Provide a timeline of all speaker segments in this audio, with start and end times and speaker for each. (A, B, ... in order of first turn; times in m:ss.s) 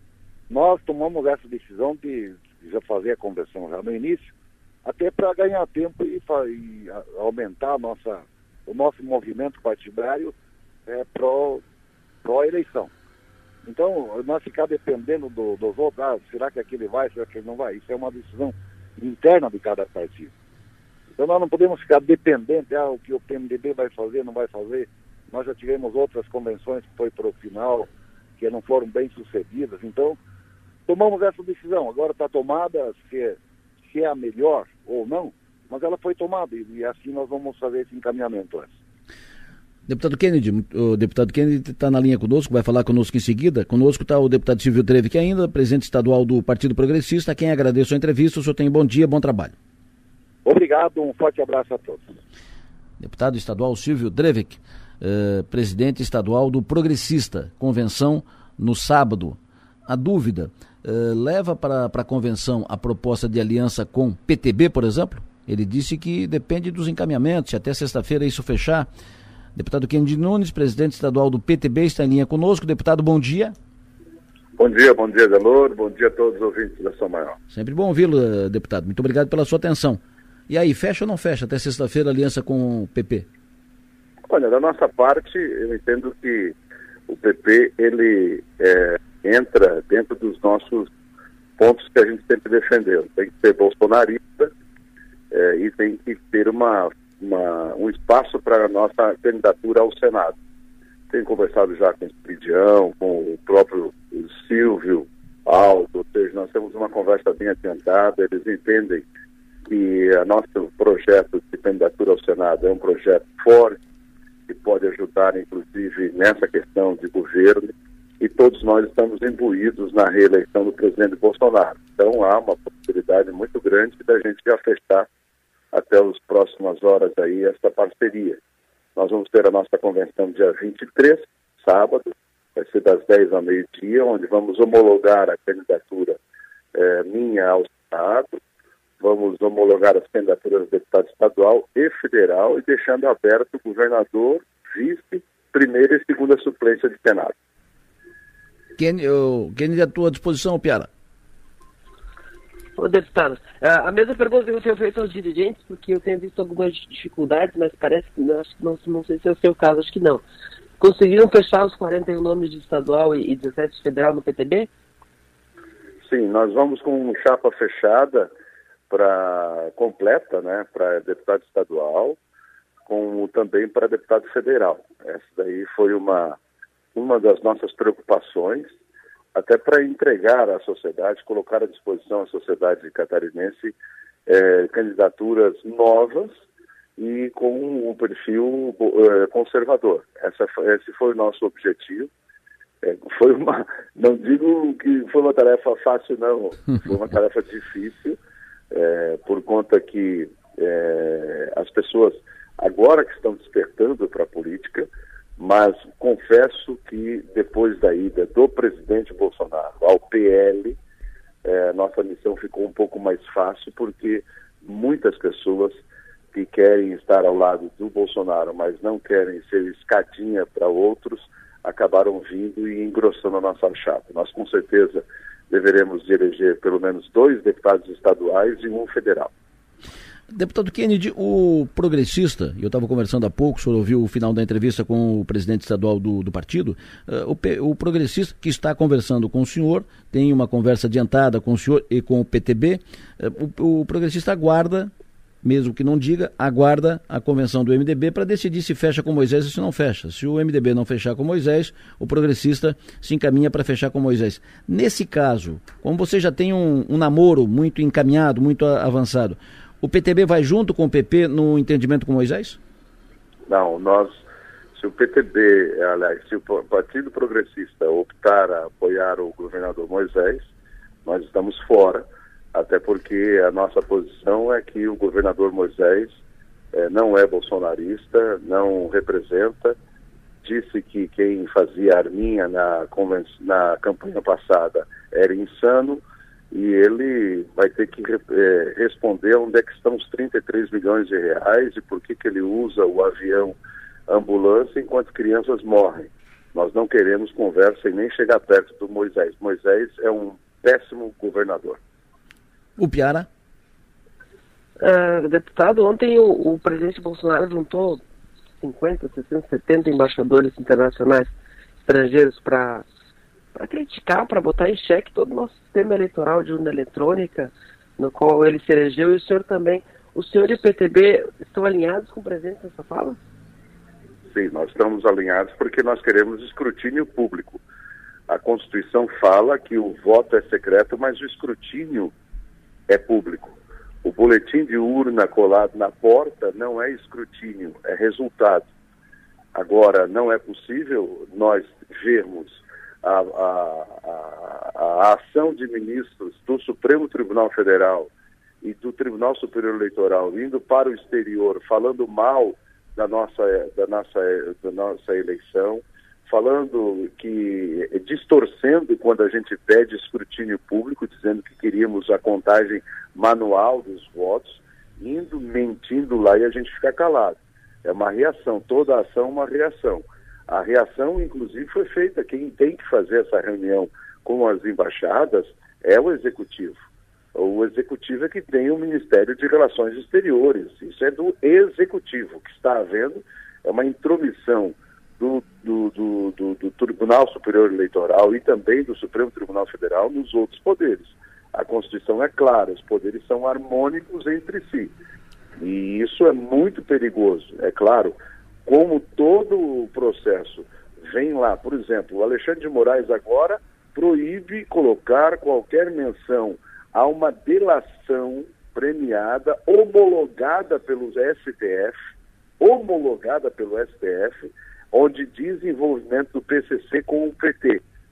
0:00.5-0:04.3 A
0:04.8-0:10.3 A
0:10.9-0:11.6 A
0:12.2-0:12.9 A
0:13.6-0:20.3 A
0:21.2-0:30.2 A
0:30.9-0:38.7 A
0:39.9-0:49.5 B
0:50.5-0:52.1 A
0:53.0-1:08.9 B
1:09.6-1:13.6 B
1:14.6-1:17.4 C
1:17.5-1:23.3 B
1:24.3-1:26.5 C
1:27.1-1:30.9 C
1:31.6-1:34.5 C
1:35.3-1:40.4 C
1:41.1-1:49.0 C
1:49.7-1:53.8 C
1:54.5-1:57.7 C
1:58.2-2:05.1 C
2:05.7-2:08.4 C
2:09.0-2:16.2 C
2:16.7-2:18.4 C
2:19.0-2:27.3 C
2:28.8-2:30.9 B
2:32.8-2:40.2 D
2:40.8-2:44.7 D
2:46.0-2:48.3 C
2:48.9-2:52.2 C
2:52.9-2:56.4 C
2:57.0-2:58.7 C
2:59.4-3:03.8 C
3:04.3-3:06.4 C
3:07.0-3:12.1 C
3:12.8-3:18.2 C
3:18.7-3:24.9 C
3:25.4-3:30.8 C
3:31.4-3:35.8 C
3:36.3-3:49.3 C
3:50.3-4:04.9 B
4:05.4-4:22.6 B
4:23.5-4:24.2 C
4:24.8-4:30.5 C
4:31.0-4:36.2 C
4:36.7-4:39.8 C
4:40.4-4:53.6 C
4:54.1-5:01.8 C
5:02.8-5:03.3 B
5:04.8-5:08.0 D
5:08.6-5:11.3 D
5:11.8-5:12.8 D
5:13.5-5:23.2 D
5:24.3-5:27.6 C
5:28.3-5:32.1 C
5:32.9-5:38.7 C
5:39.6-5:48.1 C
5:48.6-6:16.8 C
6:17.4-6:34.9 C
6:35.6-6:52.0 C
6:52.6-6:57.8 C